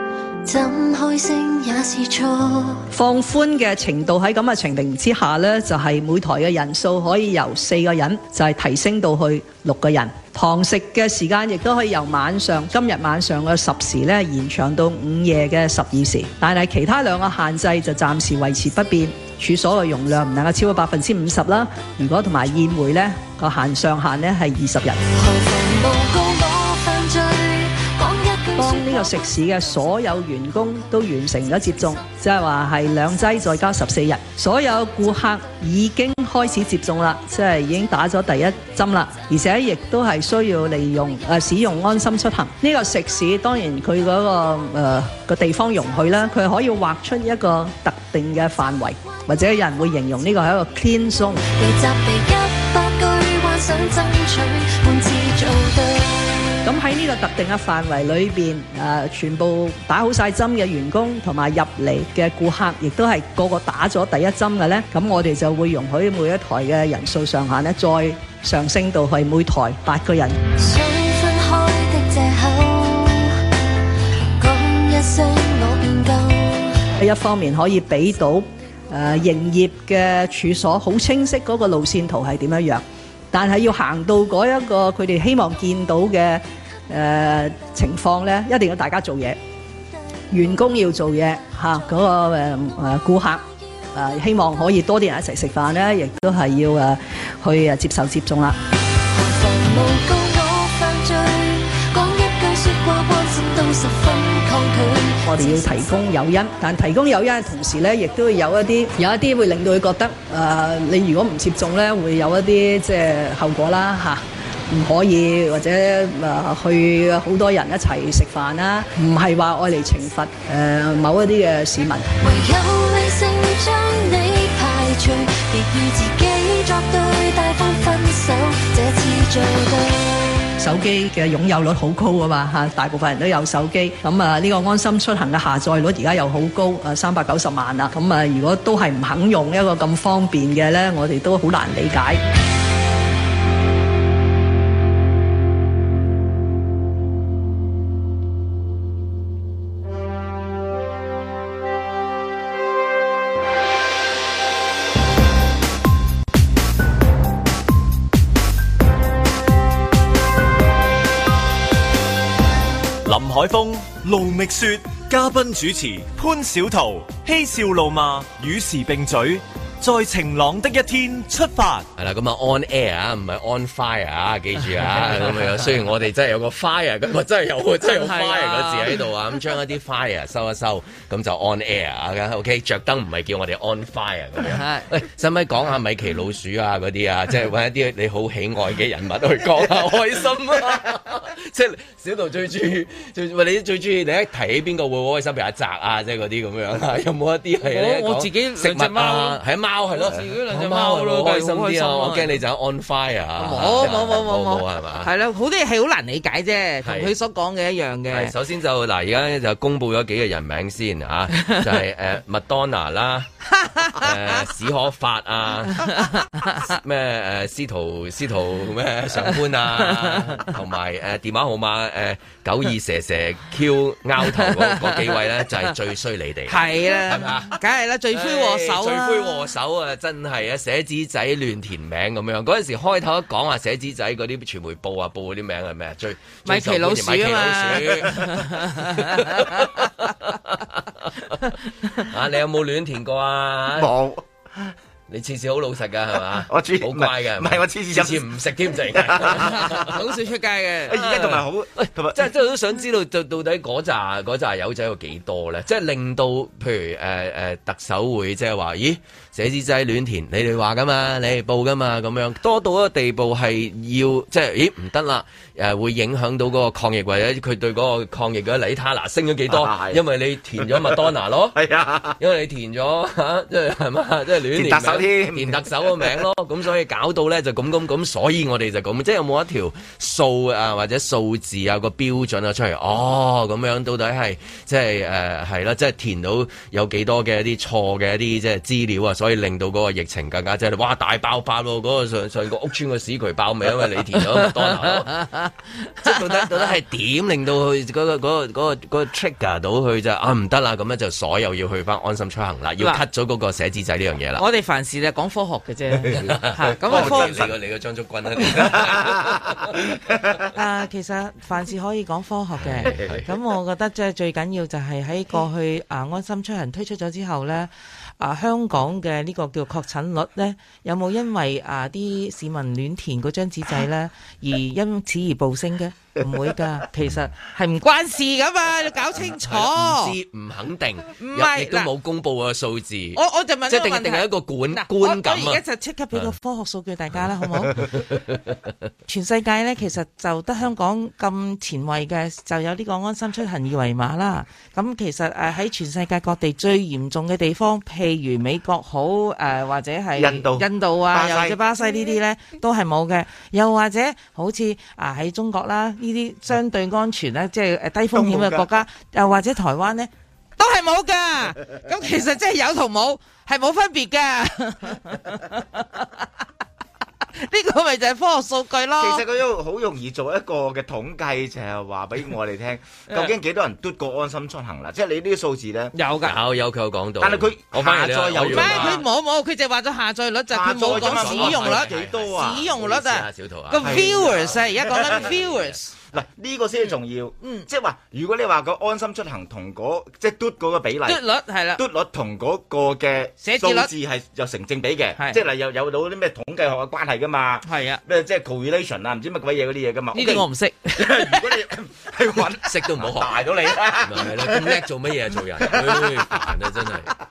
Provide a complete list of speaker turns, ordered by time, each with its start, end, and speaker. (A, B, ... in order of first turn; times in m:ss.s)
0:00.4-0:02.8 A
0:02.9-0:25.0 B
0:25.1-0:29.2 A
0:28.6-0:51.4 B
0:51.4-0:56.4 A
0:56.6-1:10.4 B
1:10.6-1:13.4 A
1:14.4-1:16.8 A
1:17.0-1:29.4 B
1:30.3-1:33.4 B
1:33.9-1:38.6 B
1:39.1-1:45.8 A
1:45.2-2:02.1 B
2:02.2-2:10.5 A
2:10.6-2:22.2 B
2:43.0-2:51.9 C
2:52.0-3:25.1 D
2:57.9-2:58.9 E
3:04.5-3:04.8 E
3:17.6-3:19.4 E
3:19.9-3:22.4 E
3:23.4-3:28.3 E
3:26.8-3:27.1 D
3:28.1-3:33.3 D
3:33.6-3:34.1 E
3:33.9-3:36.0 D
3:35.8-3:36.7 E
3:36.6-3:47.6 D
3:39.9-3:40.4 E
3:44.3-3:45.0 E
3:46.5-3:49.4 E
3:48.1-4:03.9 D
3:56.4-3:59.6 E
4:03.7-4:04.7 F
4:05.1-4:09.9 D
4:06.5-4:08.3 F
4:08.9-4:09.7 F
4:09.4-4:11.0 E
4:10.9-4:12.2 F
4:11.0-4:31.6 D
4:29.5-4:30.0 F
4:30.6-4:32.2 F
4:32.2-4:55.2 D
4:34.5-4:36.1 F
4:54.8-4:56.5 E
4:56.0-5:04.4 D
5:04.4-5:07.4 E
5:06.0-5:07.5 F
5:06.2-5:09.8 D
5:08.6-5:10.4 F
5:10.5-5:30.1 E
5:12.6-5:13.2 D
5:12.8-5:13.2 F
5:29.2-5:35.6 D
5:31.2-5:31.9 E
5:33.1-5:37.9 E
5:37.7-5:38.6 D
5:39.1-6:06.1 E
5:50.1-5:51.6 F
5:58.1-5:58.7 F
6:07.4-6:09.2 E
6:09.0-6:15.9 F
6:15.9-6:16.3 E
6:16.2-6:19.0 D
6:17.2-6:19.0 F
6:18.5-6:25.9 E
6:20.5-6:22.7 F
6:20.8-6:25.8 D
6:23.8-6:25.3 F
6:26.1-6:31.2 F
6:27.4-6:27.7 E
6:31.0-6:31.8 E
6:31.7-6:44.8 F
6:33.4-6:33.9 E
6:37.6-6:38.0 E
6:40.1-6:41.4 E
6:42.6-6:47.1 D
6:45.6-6:46.4 F